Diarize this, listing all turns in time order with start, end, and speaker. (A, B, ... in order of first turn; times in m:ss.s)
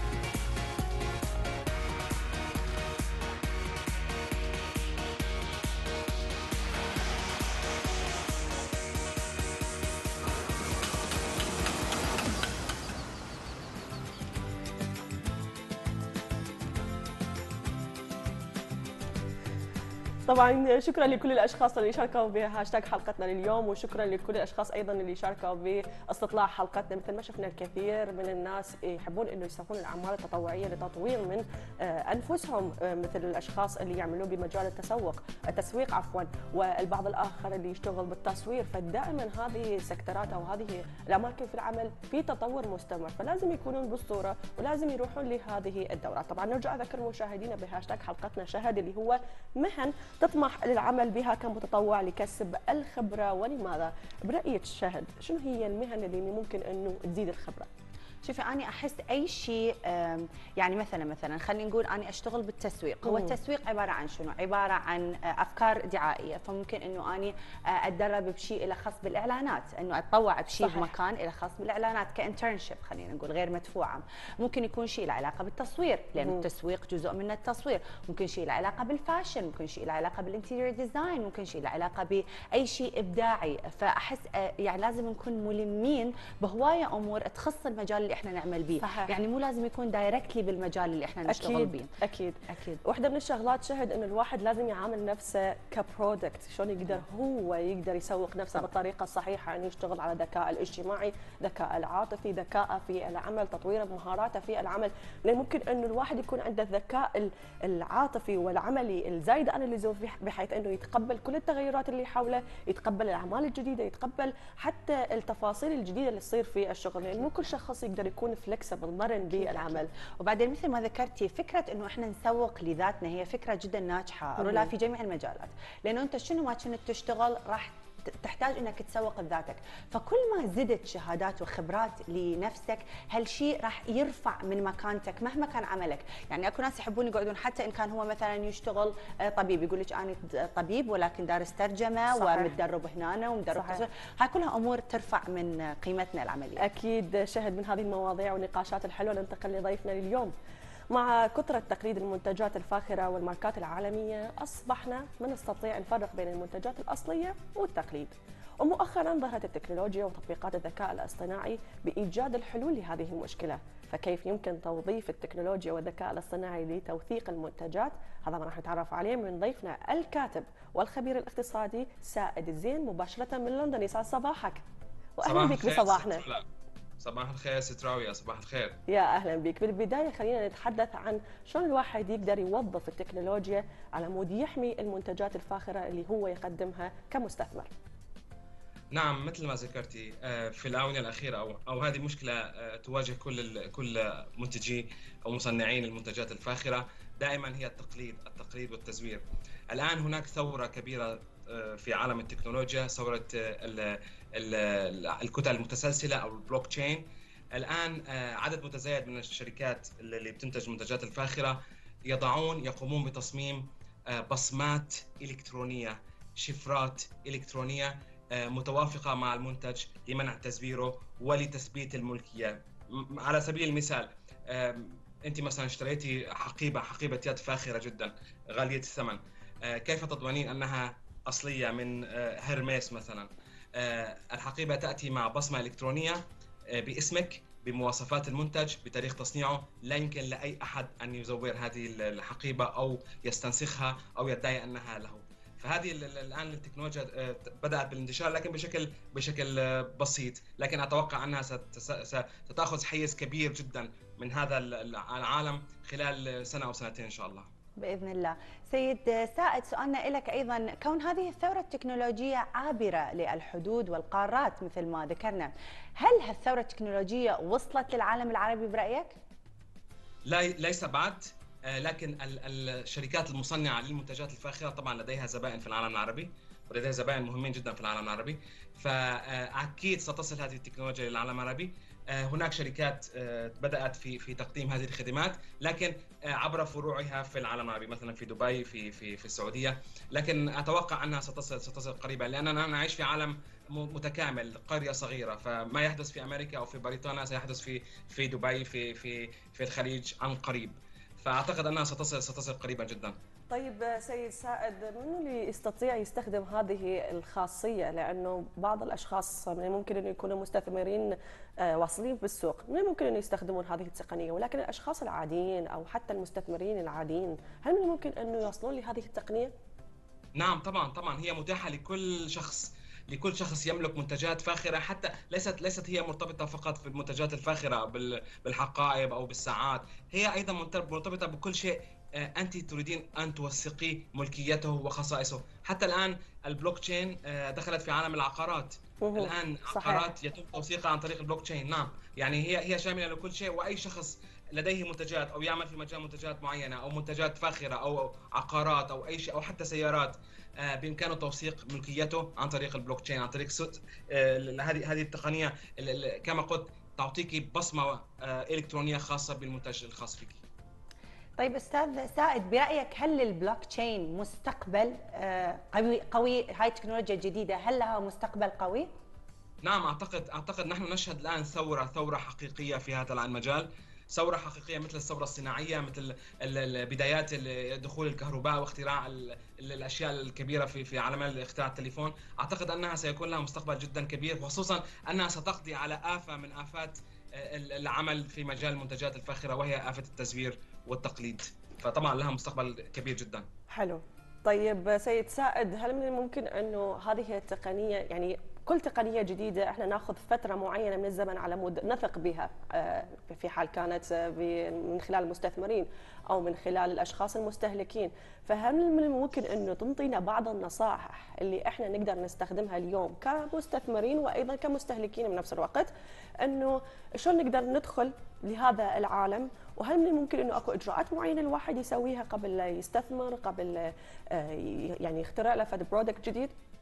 0:20.2-0:57.7 A
0:58.2-1:31.9 B
1:03.0-1:03.4 A
1:10.6-1:10.9 A
1:16.2-1:16.4 A
1:28.8-1:29.2 A
1:31.3-1:59.9 A
1:32.5-1:32.8 B
1:59.3-2:26.6 B
2:04.4-2:04.7 A
2:22.1-2:22.6 A
2:23.5-2:23.8 A
2:26.6-2:30.3 A
2:30.9-2:54.6 A
2:55.2-2:56.2 A
2:55.2-2:56.4 C
2:57.0-2:58.8 C
2:58.9-3:07.7 A
3:08.9-3:56.2 C
3:56.7-4:17.5 C
4:17.8-4:29.2 B
4:30.3-5:03.2 C
5:03.5-5:19.5 A
5:20.4-6:00.4 C
5:39.0-5:40.1 A
6:01.4-6:08.9 B
6:09.6-6:33.5 C
6:33.7-6:55.9 A
6:56.4-7:06.5 A